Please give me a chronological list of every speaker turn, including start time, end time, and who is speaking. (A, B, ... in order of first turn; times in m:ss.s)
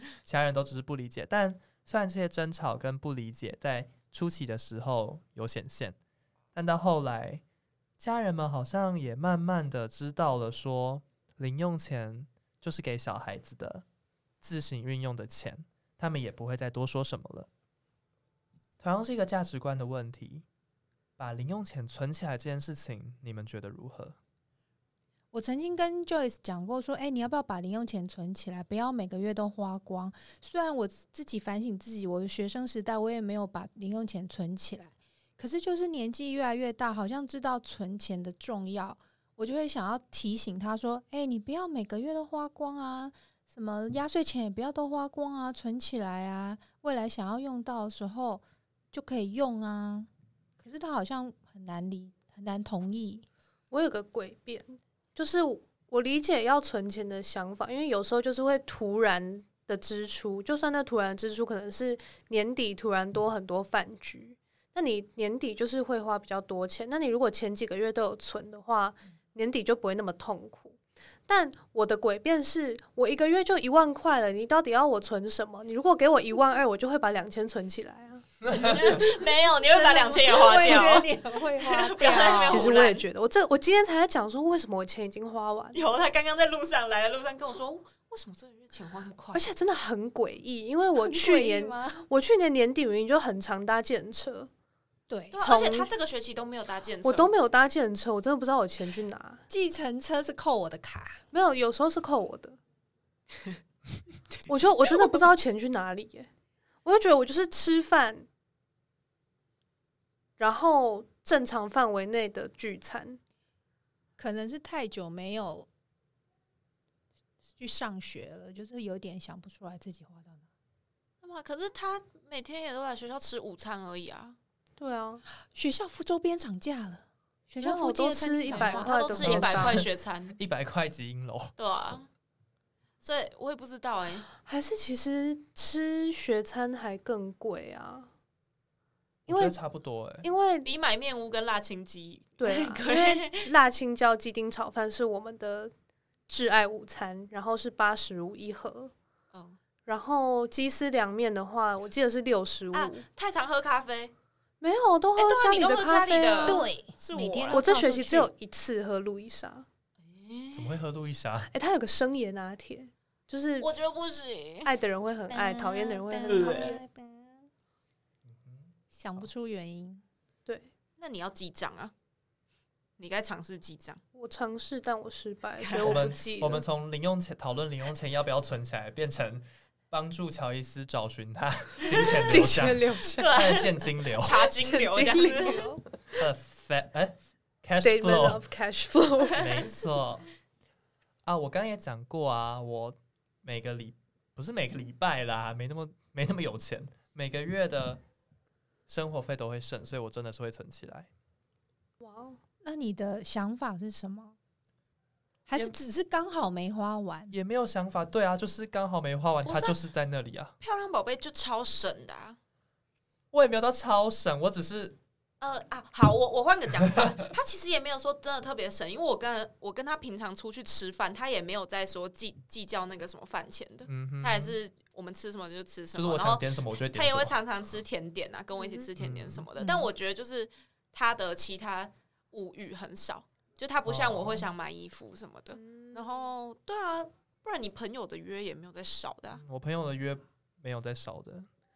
0:00.2-0:06.0 A
0:06.5-0:07.4 A
0:08.0-0:13.8 A
0:14.4-0:17.5 A
0:18.8-0:20.4 A
0:21.2-0:24.2 A
0:25.3-0:53.3 B
0:53.7-1:18.3 C
1:18.5-1:23.1 D
1:19.7-1:22.7 B
1:20.5-1:20.8 C
1:22.1-1:25.8 C
1:25.7-1:29.5 D
1:29.3-1:34.5 C
1:31.0-1:32.1 B
1:35.1-1:35.4 B
1:35.3-1:37.3 D
1:35.4-1:35.9 C
1:37.0-1:39.4 C
1:39.5-1:41.2 B
1:41.3-1:42.6 C
1:44.5-1:46.3 C
1:46.8-1:48.3 C
1:50.4-1:53.2 C
1:54.2-1:55.7 B
1:57.6-2:00.4 B
2:01.2-2:04.4 D
2:04.8-2:05.2 C
2:05.5-2:09.4 B
2:07.6-2:09.8 C
2:08.5-2:10.4 D
2:09.2-2:11.6 A
2:11.6-2:12.1 D
2:13.0-2:14.3 D
2:14.4-2:18.1 C
2:19.3-2:20.3 A
2:19.3-2:19.6 C
2:20.2-2:20.7 C
2:20.6-2:23.5 D
2:22.4-2:25.7 C
2:26.3-2:28.9 C
2:29.9-2:33.0 C
2:32.7-2:34.1 D
2:34.6-2:36.7 C
2:35.2-2:37.6 D
2:36.4-2:38.3 B
2:37.5-2:39.7 C
2:40.0-2:40.8 D
2:40.5-2:41.5 A
2:41.5-2:43.7 C
2:43.6-2:44.7 D
2:44.6-2:46.8 C
2:45.3-2:47.5 B
2:46.2-2:46.8 D
2:48.3-2:49.2 A
2:48.9-2:50.0 B
2:51.0-2:51.9 D
2:53.0-2:54.0 D
2:54.1-2:56.6 C
2:55.6-2:56.1 D
2:55.8-3:04.5 A
3:01.8-3:02.5 D
3:02.3-3:03.3 C
3:03.1-3:05.8 D
3:04.6-3:05.8 C
3:06.2-3:08.4 A
3:07.7-3:09.4 C
3:09.3-3:10.3 A
3:09.4-3:09.7 D
3:11.3-3:18.0 A
3:18.9-3:21.1 A
3:22.0-3:22.4 C
3:22.6-3:24.4 B
3:25.5-3:27.3 B
3:27.3-3:30.6 A
3:29.4-3:29.8 D
3:30.6-3:32.4 D
3:33.3-3:35.0 A
3:35.4-3:59.4 D
3:43.9-3:44.6 A
3:45.9-3:47.3 A
3:48.6-3:48.9 C
3:49.0-3:49.5 A
3:49.6-3:49.9 B
3:53.8-3:54.5 A
3:55.5-3:56.3 C
3:59.4-4:01.5 A